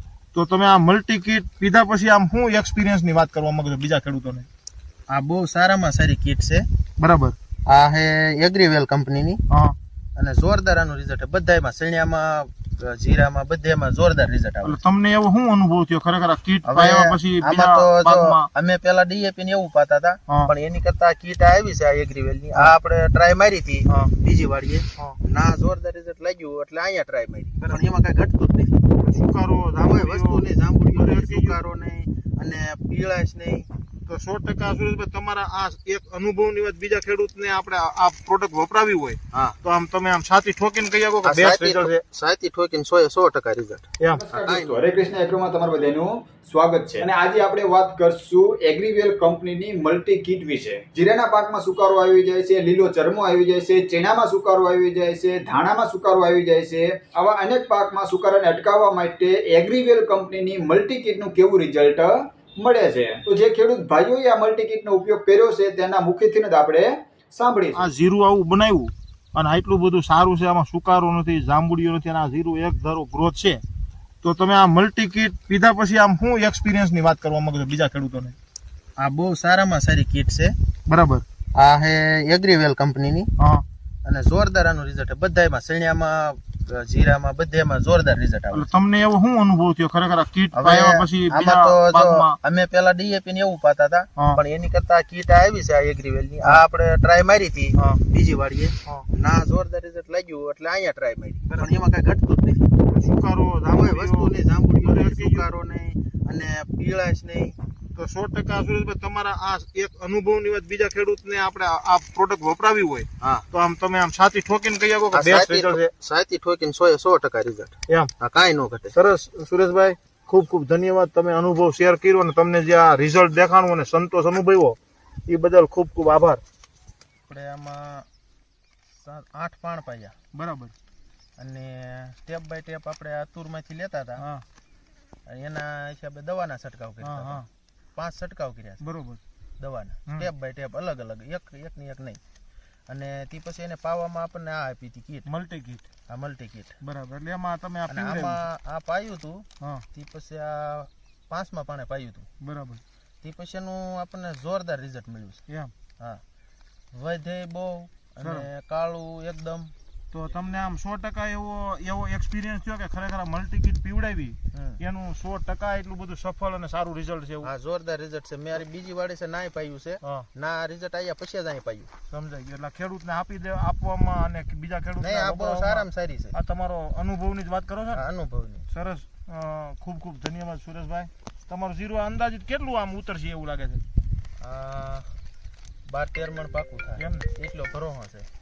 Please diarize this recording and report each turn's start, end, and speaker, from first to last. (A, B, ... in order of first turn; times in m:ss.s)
0:00.3-0:04.5 A
0:05.1-0:06.7 B
0:07.0-0:07.4 A
0:07.6-0:09.4 B
0:09.5-0:09.8 A
0:10.1-0:14.8 B
0:14.6-0:18.5 A
0:16.6-0:28.8 B
0:29.0-0:31.6 A
0:29.8-0:33.7 B
0:34.1-0:42.0 A
0:39.3-0:39.6 B
0:41.2-0:44.8 B
0:44.2-1:07.9 C
1:07.7-1:13.6 A
1:14.2-1:18.4 A
1:19.0-1:20.5 B
1:20.9-1:21.2 A
1:21.5-1:23.3 B
1:23.4-1:23.6 A
1:24.0-1:28.7 B
1:28.5-1:32.4 A
1:30.5-1:42.7 B
1:37.8-1:38.0 A
1:42.8-1:45.4 A
1:43.7-1:47.6 B
1:47.9-1:55.9 A
1:53.2-1:53.5 B
1:55.1-1:59.0 B
1:58.9-2:06.4 A
2:07.3-2:08.1 B
2:08.9-2:10.1 B
2:10.3-2:10.7 A
2:11.4-2:14.2 B
2:14.2-2:14.4 A
2:15.2-2:18.8 B
2:17.0-2:17.5 A
2:18.8-2:19.2 A
2:19.6-2:22.2 B
2:22.9-2:25.3 B
2:25.2-2:25.8 A
2:26.1-2:26.8 B
2:26.8-2:28.4 A
2:27.9-2:32.3 B
2:32.4-2:32.8 A
2:33.2-2:35.4 B
2:35.5-2:35.7 A
2:36.9-2:39.7 B
2:38.2-2:38.5 A
2:40.1-2:47.5 A
2:44.5-2:44.8 B
2:47.4-2:51.9 B
2:50.0-2:50.3 A
2:52.1-2:58.0 A
2:55.0-2:56.4 B
2:57.9-2:58.7 B
2:58.7-3:03.8 A
3:04.4-3:05.1 B
3:05.8-3:08.3 B
3:07.0-3:07.3 A